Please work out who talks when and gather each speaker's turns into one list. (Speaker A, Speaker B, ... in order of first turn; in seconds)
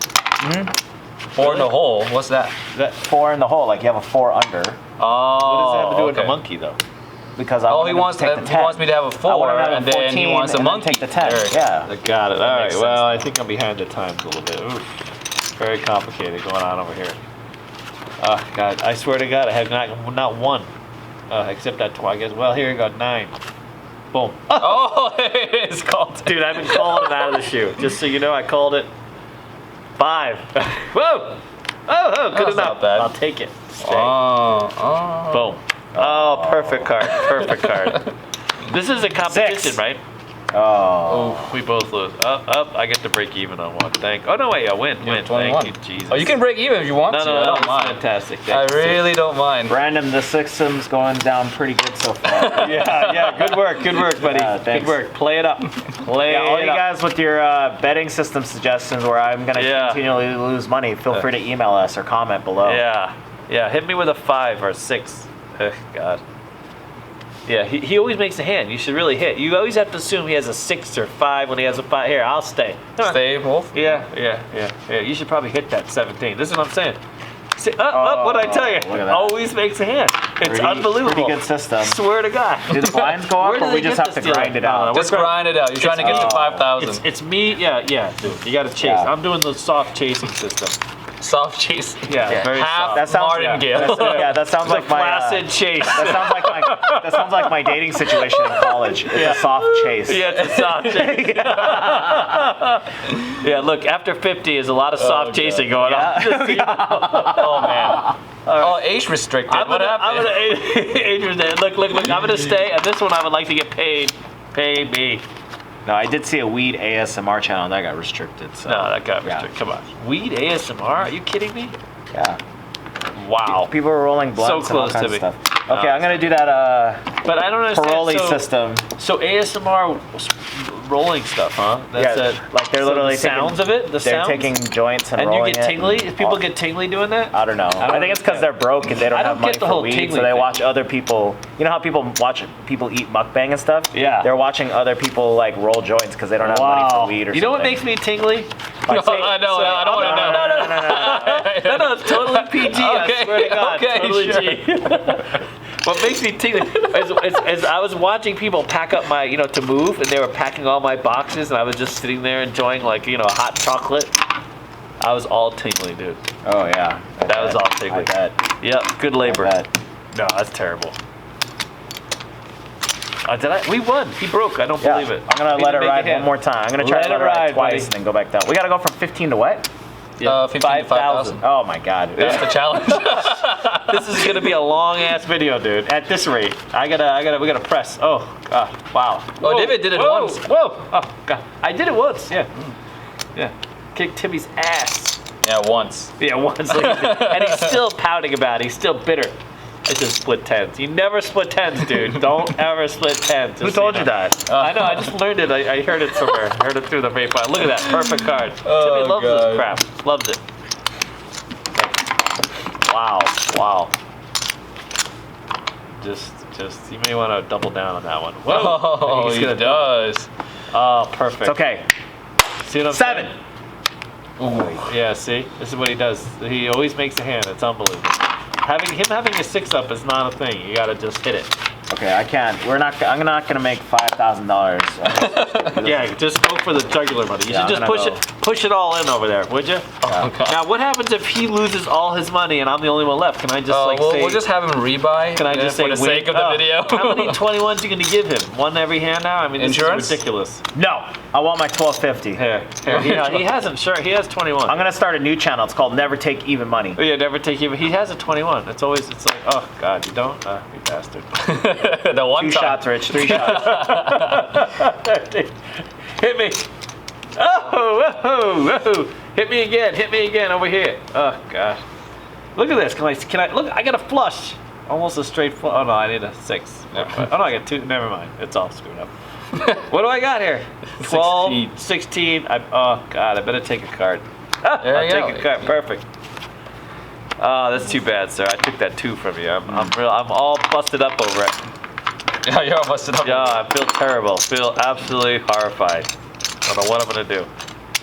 Speaker A: 0.4-0.7, 2.7-4.8, 7.3-11.9, 35.9-36.9, 39.2-39.8, 40.5-41.5, 49.6-52.9, 54.1-55.0, 56.2-62.8, 77.9-79.3, 80.4-82.0, 82.7-85.0, 86.0-86.7, 88.8-89.1, 92.9-102.5, 105.8-108.2, 115.8-119.5, 122.1-122.4, 123.5-128.9, 131.9-136.4, 137.3-147.9, 148.8-151.5, 166.4-168.4, 169.2-169.7, 174.8-179.7, 181.4-182.6, 203.6-204.4, 221.4-221.8, 222.9-223.3, 231.9-236.1, 237.5-238.2, 240.0-240.3, 250.7-252.4, 254.7-257.0, 262.3-263.9
Speaker B: 1.3-2.5, 5.0-6.4, 7.7-11.6, 12.3-13.2, 24.6-27.2, 32.3-33.1, 33.8-35.5, 37.1-37.7, 41.1-41.5, 45.0-49.8, 52.3-53.4, 73.0-73.7, 84.9-87.0, 91.2-94.4, 105.0-106.0, 107.3-110.5, 148.9-155.3, 156.7-157.3, 180.2-181.4, 182.2-184.5, 189.4-190.4, 195.4-196.1, 196.7-197.8, 204.5-205.1, 207.8-209.7, 218.5-220.3, 224.4-224.9, 235.1-235.8, 240.0-240.6, 243.7-247.4, 249.6-250.2, 252.8-253.5, 261.4-264.6, 276.9-277.4, 279.5-279.8, 281.0-281.7, 284.8-285.7, 292.4-293.7
Speaker C: 1.4-1.7, 5.3-6.8, 11.8-14.9, 15.6-17.2, 18.2-20.7, 21.3-23.3, 24.1-24.9, 26.2-28.9, 30.0-34.2, 35.3-40.0, 41.4-46.4, 47.0-49.0, 52.4-56.9, 59.5-60.0, 62.6-66.2, 67.5-77.0, 77.5-90.8, 92.1-97.5, 98.1-107.7, 108.5-108.8, 109.5-115.2, 118.7-121.7, 123.2-123.7, 124.3-126.3, 127.2-134.6, 135.2-140.6, 143.9-144.3, 146.4-148.5, 149.0-164.1, 165.0-166.2, 167.3-169.5, 170.1-170.9, 173.2-177.9, 180.2-181.4, 182.2-192.5, 193.3-195.2, 196.2-199.3, 199.9-210.4, 211.7-212.1, 212.8-213.9, 216.0-219.9, 220.7-221.6, 222.6-223.3, 224.7-231.5, 235.8-239.9, 240.4-244.5, 245.3-250.6, 252.3-254.9, 256.9-261.4, 263.2-266.7, 267.3-271.8, 272.6-279.1, 279.8-286.0, 287.4-291.6, 293.2-296.1, 296.6-297.5